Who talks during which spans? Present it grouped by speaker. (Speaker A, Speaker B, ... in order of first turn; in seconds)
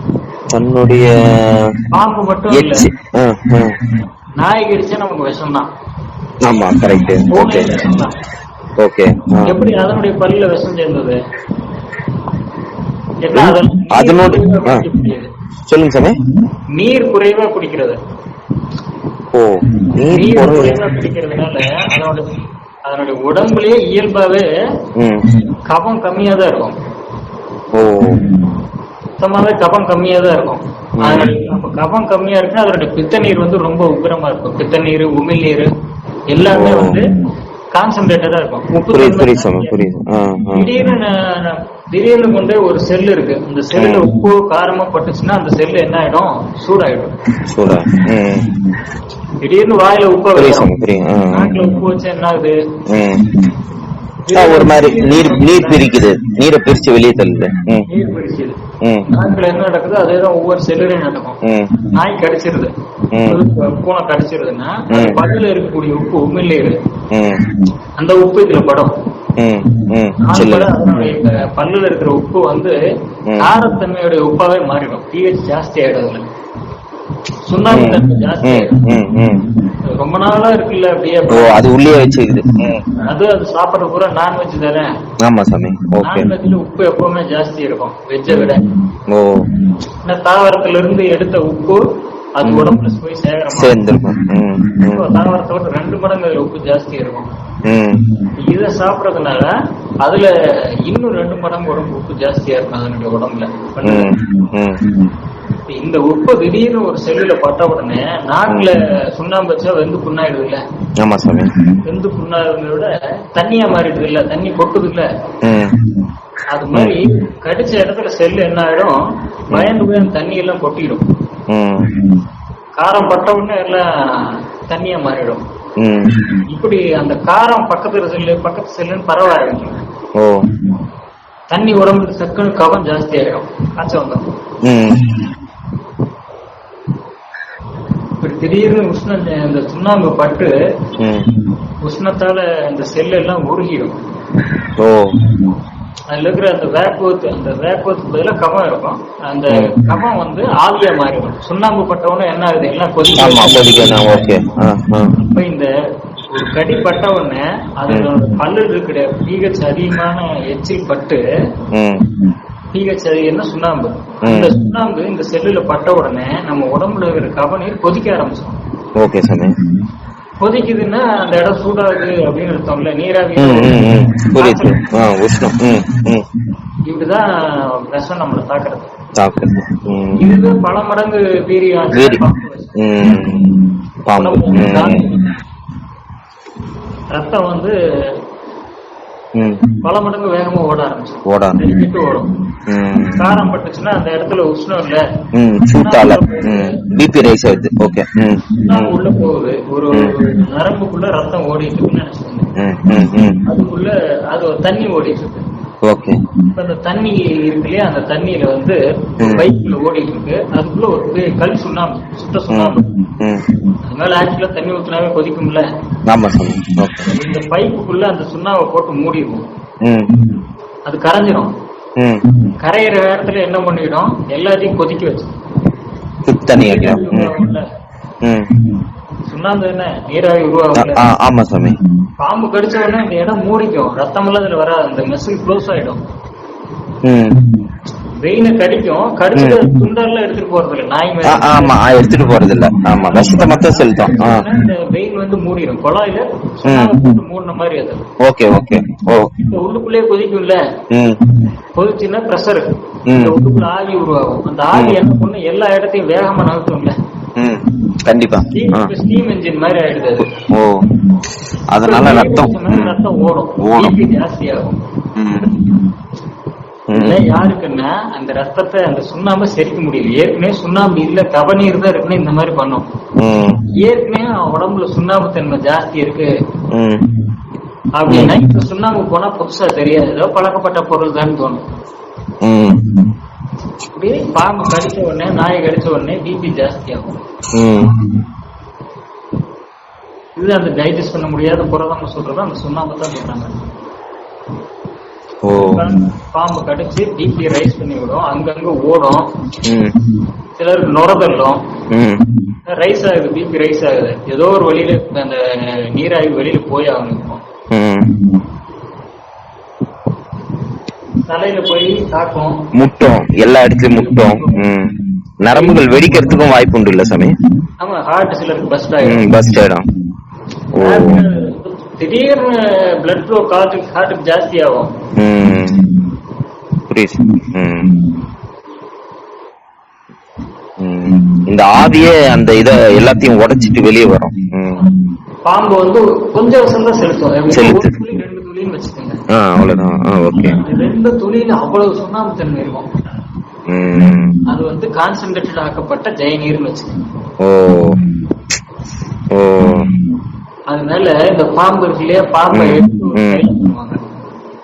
Speaker A: 0.5-1.8, 2.5-3.9, 6.4-7.9, 8.8-9.6, 13.3-14.8, 15.7-16.2, 19.3-20.8, 25.0-25.3, 27.7-28.3, 31.0-31.3, 36.5-37.0, 38.9-40.8, 43.8-44.1, 47.5-48.6, 50.4-51.7, 52.9-53.4, 54.3-57.9, 58.8-59.1, 61.4-61.8, 63.1-63.4, 64.9-65.2, 67.1-67.6, 69.4-70.8, 77.7-79.5, 81.3-82.9, 85.2-86.3, 88.3-89.6, 92.4-92.8, 93.5-95.0, 97.7-98.1, 103.8-105.0, 111.0-111.5, 115.4-115.9, 121.5-122.1, 125.8-126.4, 130.2-130.6, 134.6-135.2, 141.0-141.3, 144.8-145.4, 153.2-155.2, 161.7-162.1, 164.2-164.6, 169.0-169.6, 173.4-176.3, 179.2-180.4, 181.9-182.2, 182.8-185.2, 189.4-189.7, 191.3-191.8, 192.7-193.5, 195.3-199.0, 202.6-203.5, 205.8-206.2, 209.2-209.5, 212.5-213.5, 216.1-217.1, 219.8-220.3, 222.0-222.4, 226.3-227.4, 228.2-228.6, 230.8-231.8, 237.0-237.5, 239.4-239.7, 241.3-244.4, 246.7-247.2, 248.2-249.5, 250.9-251.3, 253.1-253.4, 254.7-255.0, 257.4-258.9, 260.4-260.9, 261.7-263.0, 263.6-264.0, 265.2-265.7, 266.9-267.2, 273.2-273.6, 276.7-277.1, 278.1-278.4, 282.4-282.9, 287.6-288.1, 295.4-295.9, 299.6-300.0, 301.9-302.3, 307.7-308.3, 312.7-317.4, 319.0-319.8, 320.7-321.2, 325.2-325.9, 326.9-328.0, 330.8-334.9, 337.5-338.0, 339.4-340.6, 343.7-344.4, 347.4-348.1, 349.3-349.9, 352.5-353.4
Speaker B: 1.9-2.9, 4.4-5.7, 7.3-8.2, 9.4-11.2, 13.2-15.3, 16.7-18.0, 20.1-22.3, 22.9-24.5, 25.7-26.8, 29.2-35.7, 36.3-37.1, 37.7-39.7, 40.5-47.1, 49.4-50.7, 51.3-52.6, 54.3-55.9, 57.9-58.6, 59.1-62.7, 63.2-66.8, 68.0-69.0, 70.2-72.8, 73.4-76.3, 77.5-78.8, 80.0-81.6, 83.0-84.9, 86.0-88.7, 90.0-91.8, 92.4-93.8, 94.9-97.3, 98.4-100.3, 100.9-104.1, 105.7-110.6, 111.9-115.1, 116.5-119.0, 119.5-121.0, 122.8-125.4, 126.5-129.8, 131.5-134.2, 138.2-140.5, 141.8-144.0, 146.1-154.2, 155.2-155.7, 156.3-161.2, 162.7-168.6, 170.4-174.8, 176.9-178.9, 180.2-182.8, 184.2-185.3, 187.1-187.8, 189.8-192.3, 193.2-195.0, 195.7-196.8, 198.6-202.5, 203.5-205.5, 206.5-212.9, 213.9-215.7, 217.1-219.4, 220.9-221.5, 222.6-225.3, 226.6-227.7, 229.3-231.1, 232.2-236.0, 238.2-241.8, 242.9-248.0, 249.4-250.6, 251.8-257.0, 258.5-260.3, 261.8-264.8, 266.9-272.9, 273.7-276.3, 278.0-281.6, 283.9-287.2, 290.4-293.5, 295.6-299.2, 300.6-301.6, 302.7-305.4, 305.9-307.4, 311.2-312.7, 313.9-314.7, 315.5-316.0, 317.8-319.3, 320.8-325.0, 335.5-339.2, 340.4-342.9, 344.5-347.0, 350.7-354.0